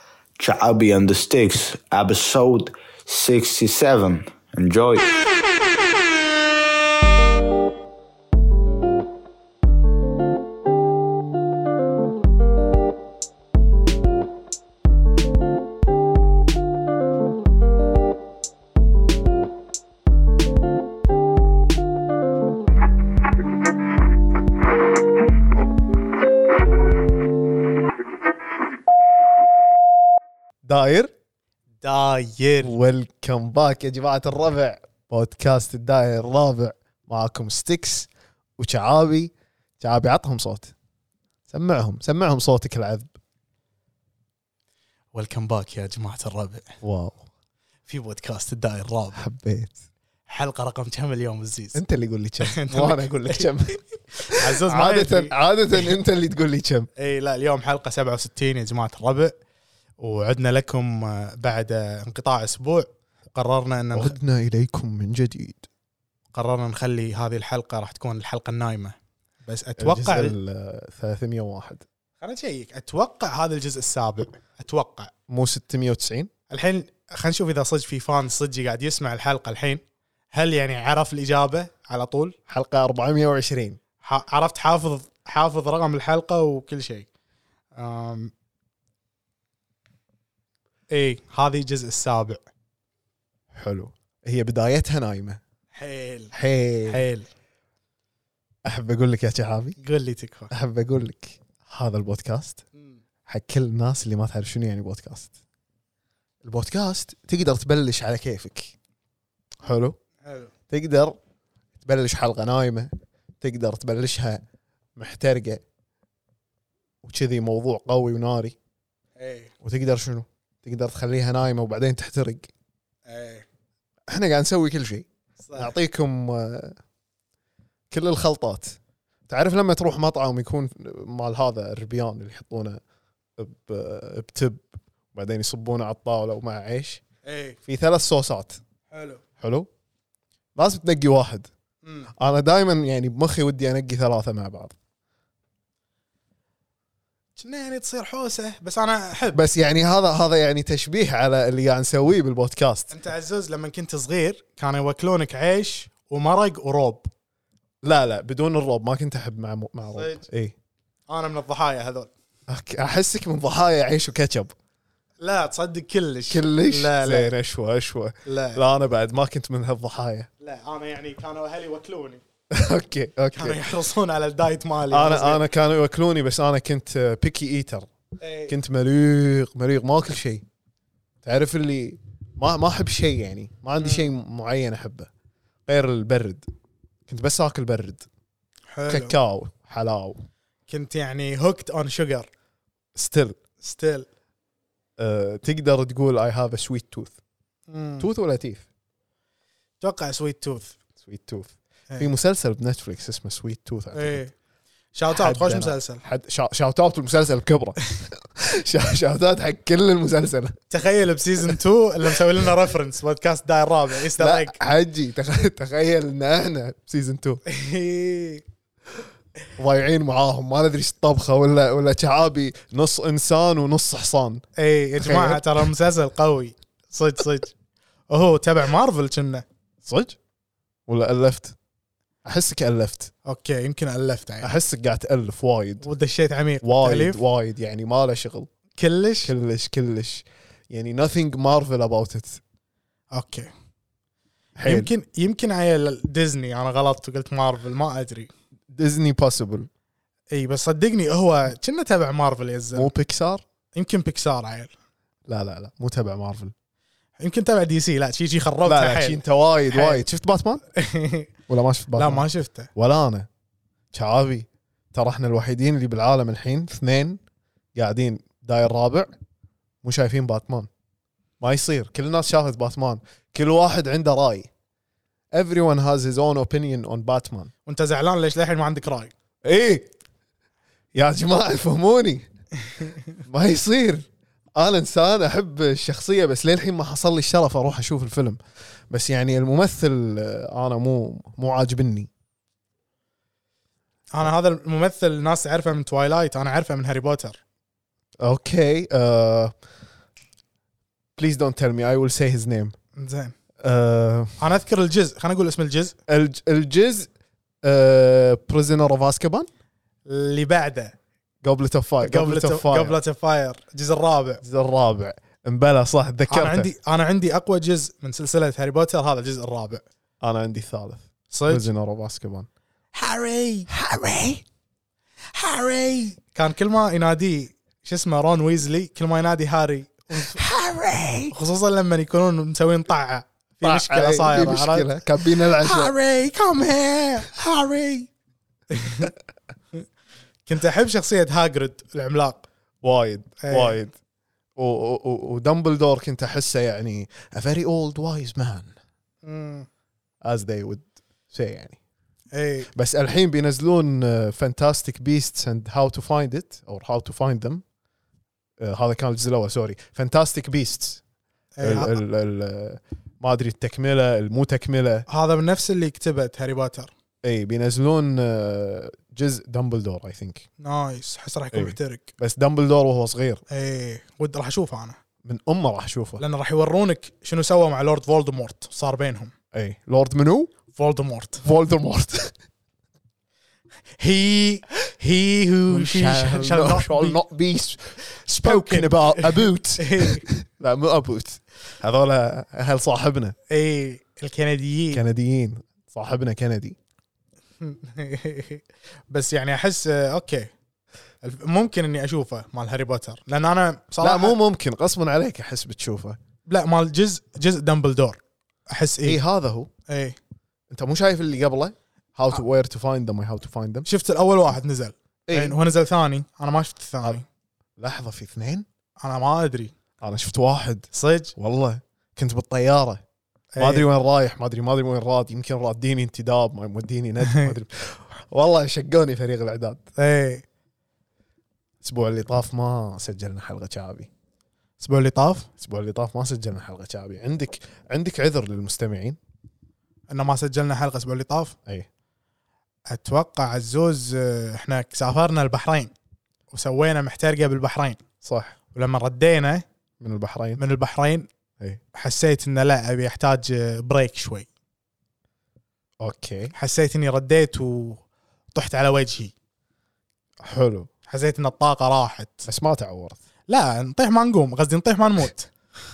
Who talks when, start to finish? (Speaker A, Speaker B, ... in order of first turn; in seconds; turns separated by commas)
Speaker A: 0.4-5.1, Speaker B: 30.6-31.1, Speaker C: 31.8-32.8, Speaker B: 32.6-40.7, Speaker B: 41.5-43.1, Speaker C: 45.1-46.7, Speaker B: 46.8-47.3, Speaker C: 47.9-49.2, Speaker B: 49.2-49.8, Speaker C: 50.3-51.8, Speaker B: 51.7-56.9, Speaker C: 52.4-53.5, Speaker C: 54.2-55.9, Speaker C: 57.0-59.4, Speaker C: 60.0-64.1, Speaker B: 63.9-65.7, Speaker C: 66.3-70.4, Speaker B: 69.8-71.8, Speaker C: 72.2-75.1, Speaker B: 75.3-76.3, Speaker C: 76.5-79.8, Speaker C: 80.3-82.3, Speaker B: 82.5-83.8, Speaker C: 84.0-87.1, Speaker C: 87.8-88.3, Speaker C: 90.9-92.4, Speaker B: 93.5-95.4, Speaker C: 95.7-96.3, Speaker B: 96.3-97.0, Speaker C: 96.9-97.3, Speaker B: 98.7-99.8, Speaker C: 99.8-100.5, Speaker B: 100.5-102.6, Speaker B: 103.3-105.3, Speaker B: 106.4-108.7, Speaker B: 109.6-110.0, Speaker C: 110.2-110.5, Speaker B: 110.7-111.2, Speaker B: 111.8-114.4, Speaker B: 115.0-115.6, Speaker B: 117.0-118.6, Speaker C: 119.2-119.5, Speaker B: 119.6-122.5, Speaker C: 123.1-123.5, Speaker B: 124.1-126.8, Speaker C: 125.4-125.7, Speaker B: 127.9-132.8, Speaker B: 133.4-137.0, Speaker C: 137.2-137.6, Speaker B: 137.7-138.6, Speaker C: 138.9-139.2, Speaker B: 139.4-139.7, Speaker B: 140.6-141.5, Speaker B: 142.2-144.8, Speaker C: 147.4-149.4, Speaker B: 149.3-152.9, Speaker C: 152.9-157.1, Speaker B: 157.8-160.5, Speaker C: 159.9-160.2, Speaker C: 161.1-162.1, Speaker B: 162.5-164.5, Speaker C: 165.2-167.3, Speaker B: 166.3-170.3, Speaker C: 168.2-168.6, Speaker C: 170.4-172.2, Speaker B: 172.5-173.6, Speaker C: 173.3-175.4, Speaker B: 174.9-177.9, Speaker C: 178.2-178.5, Speaker B: 178.5-180.4, Speaker B: 181.2-185.1, Speaker B: 185.7-186.5, Speaker B: 187.1-188.1, Speaker C: 188.7-189.1, Speaker B: 188.9-190.2, Speaker C: 190.7-192.3, Speaker B: 192.9-193.4, Speaker C: 193.6-194.1, Speaker B: 195.0-197.2, Speaker C: 197.7-198.1, Speaker B: 198.0-198.6, Speaker C: 199.8-200.8, Speaker B: 201.0-204.2, Speaker C: 203.9-204.3, Speaker C: 204.9-206.0, Speaker B: 205.1-210.6, Speaker C: 210.7-214.6, Speaker B: 214.2-217.4, Speaker C: 217.5-218.4, Speaker B: 219.6-224.4, Speaker C: 224.6-227.5, Speaker B: 225.0-225.7, Speaker C: 228.1-229.4, Speaker B: 229.8-230.2, Speaker B: 230.9-231.6, Speaker B: 232.2-233.1, Speaker C: 233.2-234.5, Speaker B: 234.4-235.9, Speaker C: 235.8-237.2, Speaker B: 236.6-238.5, Speaker C: 238.8-239.3, Speaker B: 239.3-242.4, Speaker C: 243.1-243.5, Speaker B: 244.6-244.9, Speaker C: 244.6-248.3, Speaker B: 248.7-249.7, Speaker C: 250.3-252.9, Speaker B: 252.8-253.4, Speaker C: 253.8-254.7, Speaker B: 255.3-256.5, Speaker C: 257.2-260.0, Speaker B: 258.7-260.6, Speaker C: 260.8-261.3, Speaker B: 261.5-263.3, Speaker C: 262.0-262.7, Speaker B: 263.9-267.2, Speaker B: 267.8-269.1, Speaker B: 269.8-270.7, Speaker B: 271.4-274.5, Speaker B: 275.3-277.5, Speaker C: 277.7-279.1, Speaker B: 279.4-279.9, Speaker B: 280.9-282.3, Speaker B: 283.2-288.4, Speaker B: 288.9-292.1, Speaker C: 294.1-297.4, Speaker B: 298.2-299.6, Speaker B: 301.2-302.8, Speaker C: 303.0-303.4, Speaker B: 303.6-304.4, Speaker C: 304.4-306.0, Speaker B: 306.1-307.1, Speaker B: 307.6-309.5, Speaker C: 310.1-310.9, Speaker B: 311.4-313.0, Speaker C: 312.0-314.4, Speaker B: 314.4-316.7, Speaker C: 316.3-319.8, Speaker B: 320.2-322.5, Speaker C: 321.3-321.7, Speaker C: 322.9-323.7, Speaker B: 323.7-324.4, Speaker C: 325.3-330.4, Speaker B: 330.4-331.3, Speaker C: 331.3-338.1, Speaker B: 333.6-335.9, Speaker C: 338.7-339.1, Speaker C: 340.5-342.5, Speaker B: 342.8-343.9, Speaker C: 343.4-343.8, Speaker B: 344.6-348.8, Speaker C: 349.2-349.7, Speaker B: 350.2-351.8, Speaker C: 352.3-352.7, Speaker B: 352.7-357.6, Speaker B: 358.6-361.0, Speaker C: 361.6-362.0, Speaker B: 361.6-365.1, Speaker C: 365.1-366.9, Speaker B: 367.2-370.5, Speaker C: 370.6-372.1, Speaker B: 371.5-373.4, Speaker C: 373.5-375.0, Speaker B: 375.2-376.2, Speaker C: 376.2-379.3, Speaker B: 379.5-380.5, Speaker C: 380.7-381.4, Speaker B: 381.4-382.3, Speaker C: 384.0-387.2, Speaker B: 385.7-393.4, Speaker C: 388.4-390.2, Speaker C: 393.5-395.0, Speaker B: 394.9-396.8, Speaker C: 397.6-400.5, Speaker C: 401.2-404.4, Speaker B: 404.0-406.2, Speaker C: 406.5-409.2, Speaker B: 409.0-409.7, Speaker C: 409.9-410.2, Speaker B: 410.7-413.9, Speaker C: 413.9-417.3, Speaker B: 415.3-415.6, Speaker B: 417.8-418.7, Speaker C: 419.0-419.7, Speaker B: 420.0-423.0, Speaker C: 420.9-421.3, Speaker C: 423.5-423.9, Speaker B: 423.6-429.8, Speaker C: 427.2-427.5, Speaker C: 430.0-430.4, Speaker B: 431.8-434.1, Speaker C: 434.8-435.5, Speaker B: 435.6-439.2, Speaker C: 440.1-441.6, Speaker C: 442.9-445.9, Speaker C: 446.5-448.0, Speaker B: 448.2-448.6, Speaker C: 448.7-449.6, Speaker B: 450.0-450.6, Speaker C: 450.6-451.3, Speaker C: 451.9-454.5, Speaker B: 456.0-456.5, Speaker C: 456.6-458.0, Speaker C: 458.5-459.3, Speaker B: 460.4-460.9, Speaker C: 461.1-462.5, Speaker B: 462.5-463.2, Speaker C: 463.5-465.5